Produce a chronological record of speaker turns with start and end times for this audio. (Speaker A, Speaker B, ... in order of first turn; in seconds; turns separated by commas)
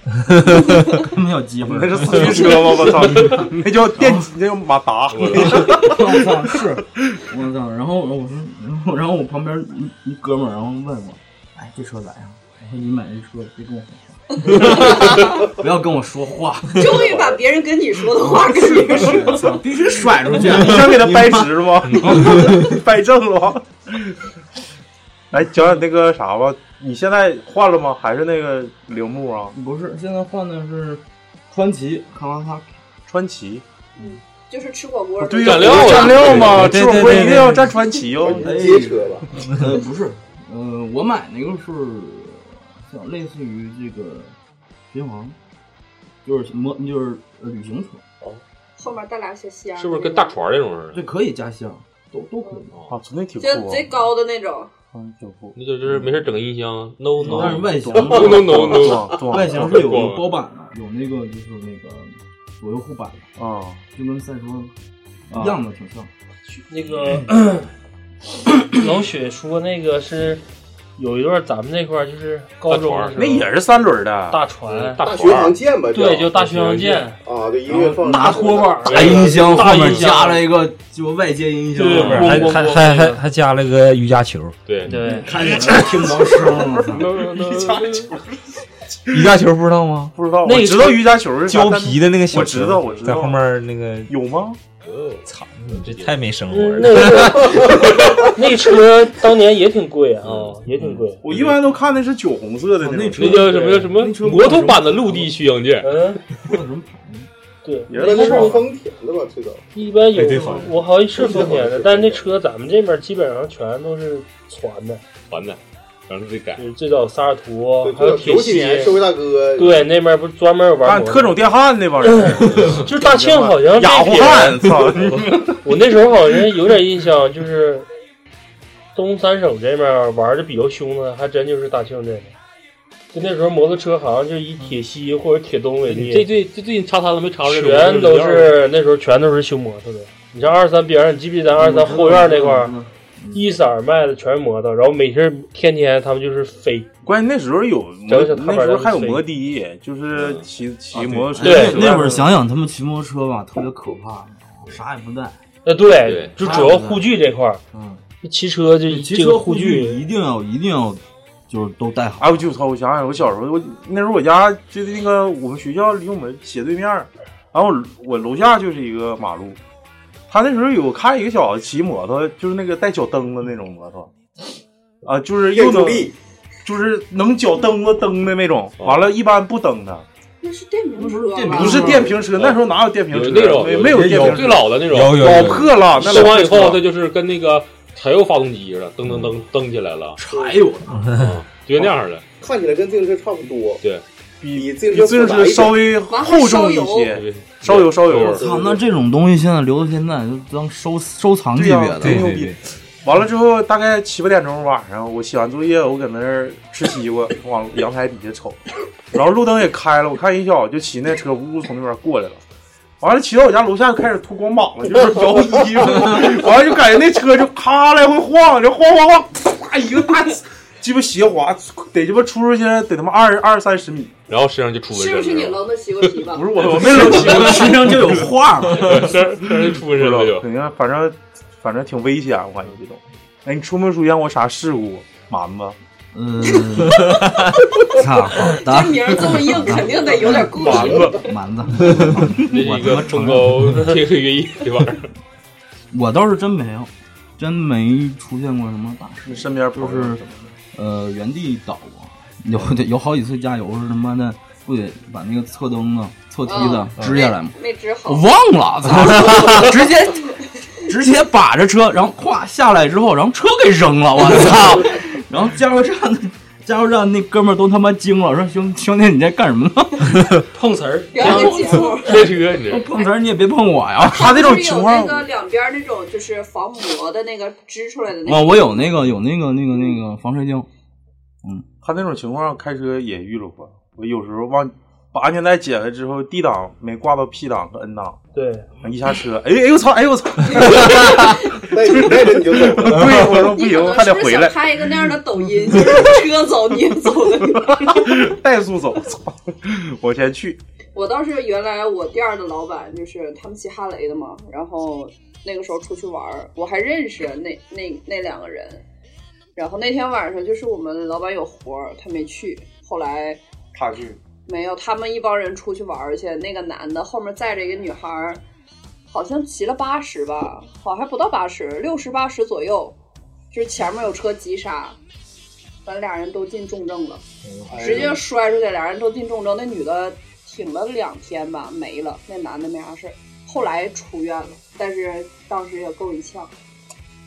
Speaker A: 0.2-4.3, Speaker B: 1.6-6.5, Speaker C: 5.1-5.9, Speaker A: 5.4-17.1, Speaker D: 14.5-15.4, Speaker D: 16.7-19.3, Speaker A: 18.1-22.6, Speaker B: 19.1-19.4, Speaker B: 20.3-24.1, Speaker B: 25.3-29.5, Speaker A: 29.5-32.7, Speaker B: 33.1-33.6, Speaker D: 34.0-36.4, Speaker B: 35.2-38.5, Speaker C: 35.4-36.7, Speaker E: 36.4-37.7, Speaker F: 38.2-39.3, Speaker A: 38.3-44.3, Speaker A: 44.9-45.4, Speaker A: 46.2-48.0, Speaker D: 48.8-50.4, Speaker C: 49.7-51.0, Speaker A: 50.9-52.7, Speaker B: 52.9-54.0, Speaker D: 53.4-54.7, Speaker B: 54.9-56.1, Speaker C: 55.5-60.3, Speaker B: 57.2-59.8, Speaker A: 57.2-58.6, Speaker A: 59.2-63.3, Speaker B: 63.4-63.8, Speaker A: 63.9-64.7, Speaker A: 65.3-66.1, Speaker B: 65.3-65.6, Speaker G: 66.7-67.7, Speaker G: 68.7-70.4, Speaker G: 71.0-73.5, Speaker C: 72.7-73.2, Speaker B: 73.2-74.4, Speaker G: 74.3-75.0, Speaker C: 74.7-75.6, Speaker F: 75.0-76.4, Speaker G: 75.9-77.2, Speaker C: 76.3-77.1, Speaker F: 77.2-79.3, Speaker A: 77.7-82.6, Speaker G: 78.2-80.5, Speaker C: 78.9-80.0, Speaker G: 81.7-83.2, Speaker E: 82.0-84.5, Speaker C: 82.0-82.5, Speaker C: 84.7-84.9, Speaker G: 84.8-85.3, Speaker A: 84.8-87.1, Speaker C: 86.9-88.0, Speaker B: 87.0-88.2, Speaker E: 89.1-90.1, Speaker B: 90.1-93.4, Speaker G: 90.4-91.0, Speaker E: 91.5-94.1, Speaker B: 94.1-94.6, Speaker C: 94.8-96.2, Speaker E: 95.2-97.7, Speaker G: 96.5-101.2, Speaker C: 100.2-100.6, Speaker B: 101.2-103.4, Speaker C: 101.3-101.5, Speaker A: 102.8-105.3, Speaker C: 103.2-106.2, Speaker G: 103.3-104.0, Speaker G: 105.8-106.2, Speaker A: 106.4-107.3, Speaker G: 107.6-108.6, Speaker B: 107.9-108.7, Speaker F: 107.9-109.6, Speaker G: 109.7-115.0, Speaker A: 110.2-110.7, Speaker F: 111.1-112.2, Speaker C: 115.3-116.6, Speaker G: 116.6-119.0, Speaker F: 117.8-119.9, Speaker G: 119.6-121.4, Speaker B: 120.8-125.6, Speaker G: 122.0-124.7, Speaker G: 125.6-127.9, Speaker G: 128.9-132.3, Speaker G: 133.1-136.3, Speaker C: 135.9-138.6, Speaker G: 137.4-142.7, Speaker A: 141.6-143.5, Speaker G: 143.3-146.9, Speaker B: 147.0-152.3, Speaker G: 148.1-149.2, Speaker C: 150.1-150.5, Speaker A: 150.9-155.4, Speaker G: 151.4-152.0, Speaker G: 155.6-157.6, Speaker C: 156.0-156.3, Speaker A: 156.4-157.1, Speaker B: 157.7-158.0, Speaker G: 158.2-160.0, Speaker A: 158.9-162.5, Speaker B: 162.2-169.6, Speaker B: 170.3-174.1, Speaker B: 175.0-176.1, Speaker F: 175.5-176.1, Speaker B: 176.6-180.1, Speaker C: 178.8-179.2, Speaker D: 180.4-182.1, Speaker A: 180.9-182.2, Speaker B: 181.5-186.8, Speaker C: 182.3-190.2, Speaker E: 183.8-185.8, Speaker A: 190.2-191.1, Speaker F: 190.3-190.6, Speaker E: 190.9-191.4, Speaker C: 191.2-192.2, Speaker F: 192.4-193.8, Speaker B: 194.4-198.4, Speaker F: 194.5-195.8, Speaker D: 196.1-197.2, Speaker C: 197.1-198.4, Speaker F: 198.3-198.8, Speaker A: 198.4-202.3, Speaker B: 201.5-208.6, Speaker E: 202.0-202.6, Speaker B: 209.1-212.4, Speaker B: 213.0-224.1, Speaker C: 224.3-226.1, Speaker D: 224.9-226.6, Speaker B: 226.2-228.2, Speaker A: 226.7-229.2, Speaker C: 226.8-228.1, Speaker C: 228.7-230.5, Speaker B: 229.9-235.8, Speaker A: 236.1-237.2, Speaker E: 237.0-237.5, Speaker A: 237.8-243.9, Speaker D: 238.4-241.3, Speaker C: 239.9-241.2, Speaker B: 240.5-241.0, Speaker C: 242.4-245.1, Speaker A: 245.9-250.2, Speaker B: 249.3-250.5, Speaker A: 250.7-270.4, Speaker D: 256.4-258.3, Speaker D: 259.1-259.8, Speaker G: 270.5-271.7, Speaker D: 271.1-272.3, Speaker C: 271.2-272.9, Speaker A: 271.2-271.5, Speaker A: 272.1-274.4, Speaker D: 274.1-278.8, Speaker B: 274.1-275.3, Speaker A: 278.2-280.7, Speaker B: 281.8-288.2, Speaker G: 288.3-288.7, Speaker B: 288.8-294.7, Speaker D: 290.5-292.1, Speaker F: 291.7-293.1, Speaker D: 293.0-298.2, Speaker B: 297.6-300.6, Speaker D: 300.9-308.8, Speaker D: 309.6-313.4, Speaker B: 313.7-314.1, Speaker D: 314.4-318.4, Speaker D: 319.1-322.9, Speaker D: 323.5-325.0, Speaker D: 325.8-327.2, Speaker E: 327.4-328.0, Speaker B: 327.7-328.2, Speaker D: 327.8-336.5